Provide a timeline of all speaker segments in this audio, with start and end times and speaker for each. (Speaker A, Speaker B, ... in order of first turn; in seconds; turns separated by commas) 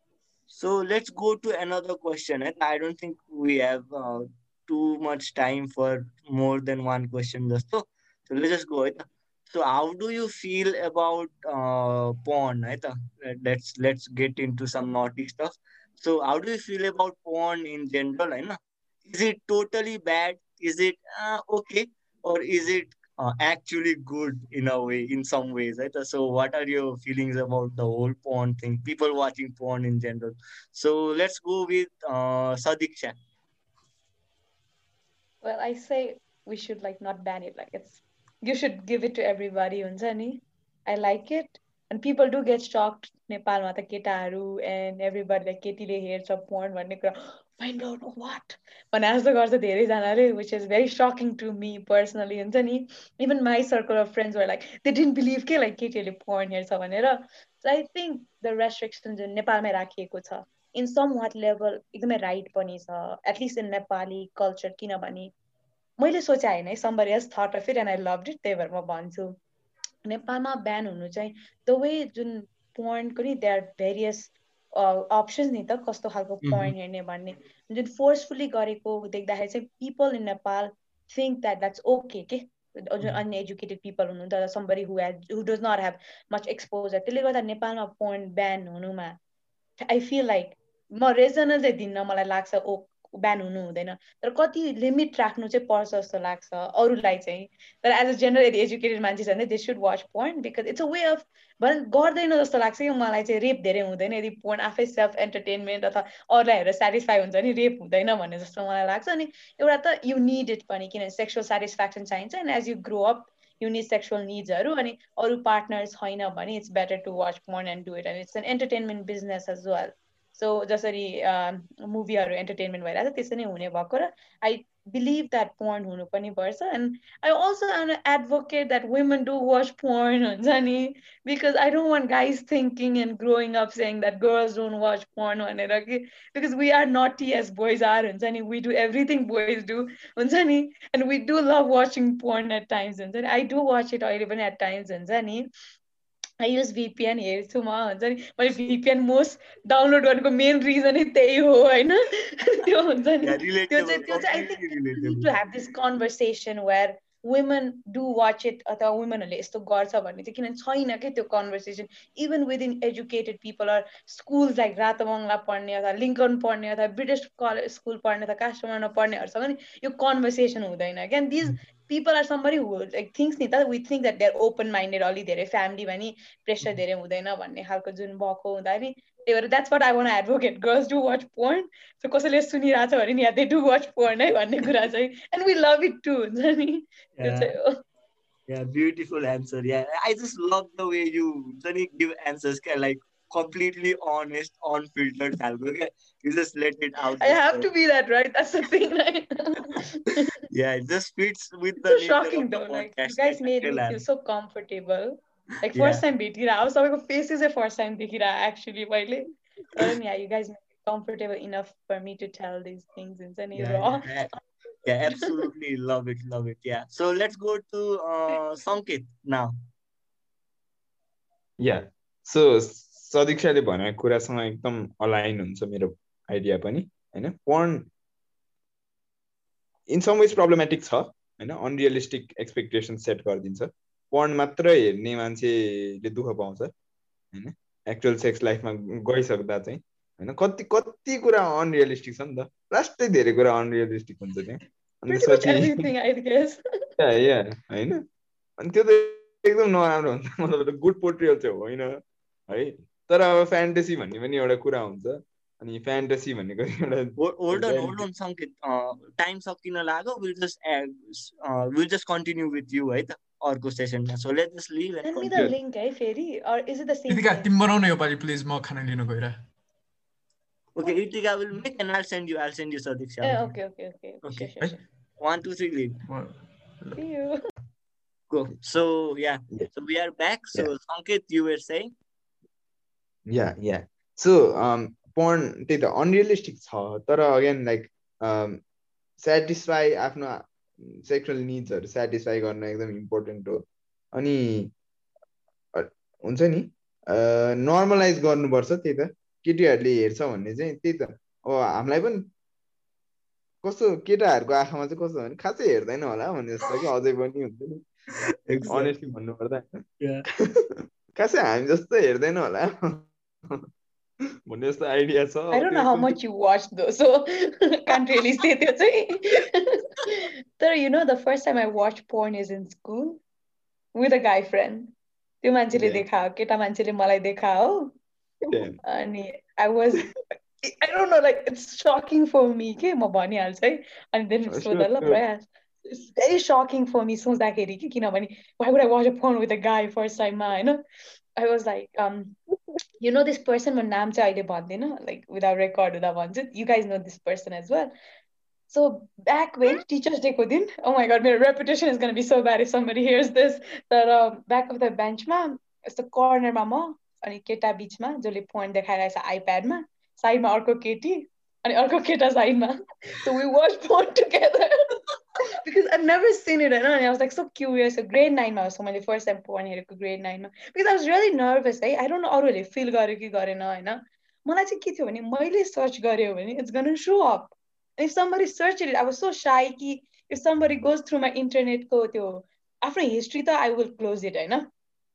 Speaker A: 0.5-33.1, Speaker B: 35.4-65.3, Speaker B: 66.0-69.4, Speaker B: 70.0-89.2, Speaker A: 76.4-76.7, Speaker B: 89.8-145.5, Speaker B: 146.4-187.7, Speaker A: 153.2-155.3, Speaker A: 187.2-187.6, Speaker A: 188.5-197.7, Speaker B: 197.2-200.3, Speaker A: 200.5-204.0, Speaker B: 201.9-214.1, Speaker A: 205.7-206.0, Speaker A: 213.5-214.3, Speaker A: 214.8-219.5, Speaker C: 221.6-227.9, Speaker C: 229.9-236.7, Speaker C: 237.3-245.8, Speaker B: 245.1-246.6, Speaker C: 247.0-248.0, Speaker C: 248.6-251.9, Speaker C: 252.5-258.0, Speaker A: 257.2-265.5, Speaker B: 265.0-267.5, Speaker D: 267.1-269.4, Speaker A: 270.8-273.6, Speaker B: 273.2-274.8, Speaker A: 274.2-274.5, Speaker A: 275.2-276.0, Speaker D: 276.1-277.0, Speaker B: 276.9-277.4, Speaker A: 278.3-281.9, Speaker C: 283.3-288.6, Speaker C: 289.2-293.6, Speaker C: 294.1-294.7, Speaker C: 295.7-302.3, Speaker C: 303.6-307.8, Speaker A: 308.5-309.1, Speaker C: 308.7-309.8, Speaker A: 310.0-310.3, Speaker C: 310.6-313.6, Speaker C: 314.5-316.2, Speaker B: 315.5-323.2, Speaker B: 323.9-327.9, Speaker C: 325.7-326.0, Speaker C: 328.5-328.8, Speaker B: 328.8-340.8, Speaker C: 334.5-335.2, Speaker B: 341.4-342.4, Speaker B: 343.0-347.9, Speaker B: 348.7-364.9, Speaker B: 365.5-384.7